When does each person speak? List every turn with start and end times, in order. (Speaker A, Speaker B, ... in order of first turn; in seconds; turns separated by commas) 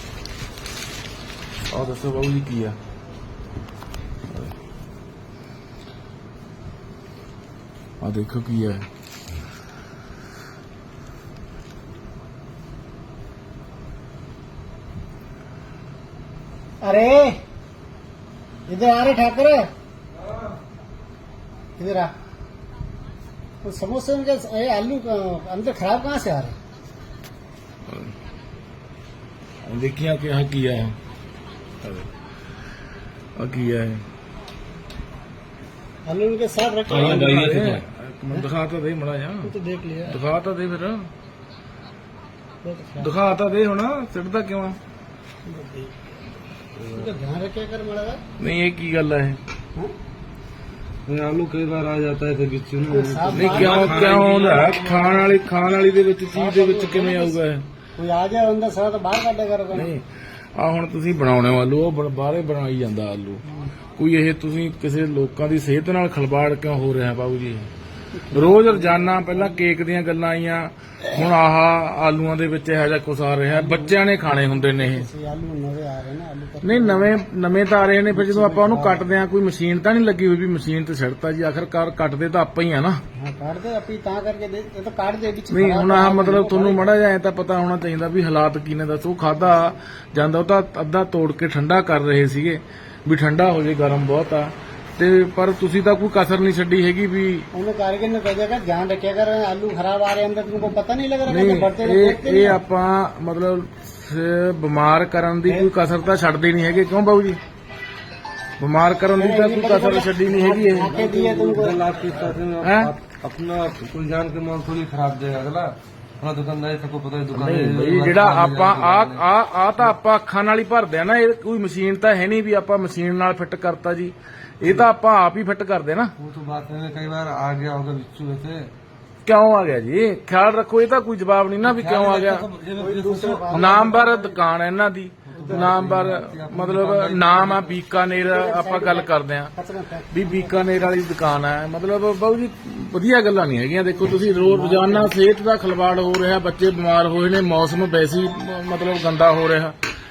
Speaker A: 1.7-2.8, Speaker A: 8.0-8.8, Speaker B: 16.8-17.4, Speaker B: 18.7-19.7, Speaker B: 21.8-22.1, Speaker B: 23.6-26.5, Speaker A: 29.6-31.0, Speaker A: 31.8-32.1, Speaker A: 33.4-34.0, Speaker B: 36.1-37.7, Speaker A: 36.9-39.5, Speaker C: 37.0-37.8, Speaker B: 39.4-40.2, Speaker A: 40.1-41.1, Speaker B: 42.6-43.1, Speaker A: 43.0-44.8, Speaker B: 45.5-45.9, Speaker B: 46.9-48.2, Speaker A: 48.4-49.4, Speaker C: 51.1-55.2, Speaker B: 52.9-54.3, Speaker A: 53.3-57.7, Speaker B: 56.3-57.4, Speaker B: 57.9-59.9, Speaker A: 59.7-63.4, Speaker A: 64.0-67.7, Speaker B: 68.2-69.6, Speaker A: 68.3-75.1, Speaker B: 73.5-77.1, Speaker A: 76.6-83.0, Speaker B: 78.1-79.0, Speaker B: 83.2-86.9, Speaker A: 85.5-97.5, Speaker B: 97.5-102.6, Speaker A: 101.3-107.4, Speaker B: 105.5-105.7, Speaker A: 108.6-111.0, Speaker B: 109.1-111.8, Speaker C: 110.8-119.2, Speaker A: 112.6-112.9, Speaker A: 117.3-126.1, Speaker C: 126.2-128.7, Speaker A: 129.2-132.4, Speaker C: 131.6-134.0, Speaker B: 132.8-134.4, Speaker A: 133.5-139.5, Speaker C: 135.3-137.8, Speaker B: 135.3-135.8, Speaker B: 138.2-140.6, Speaker A: 140.1-149.7, Speaker B: 143.9-145.1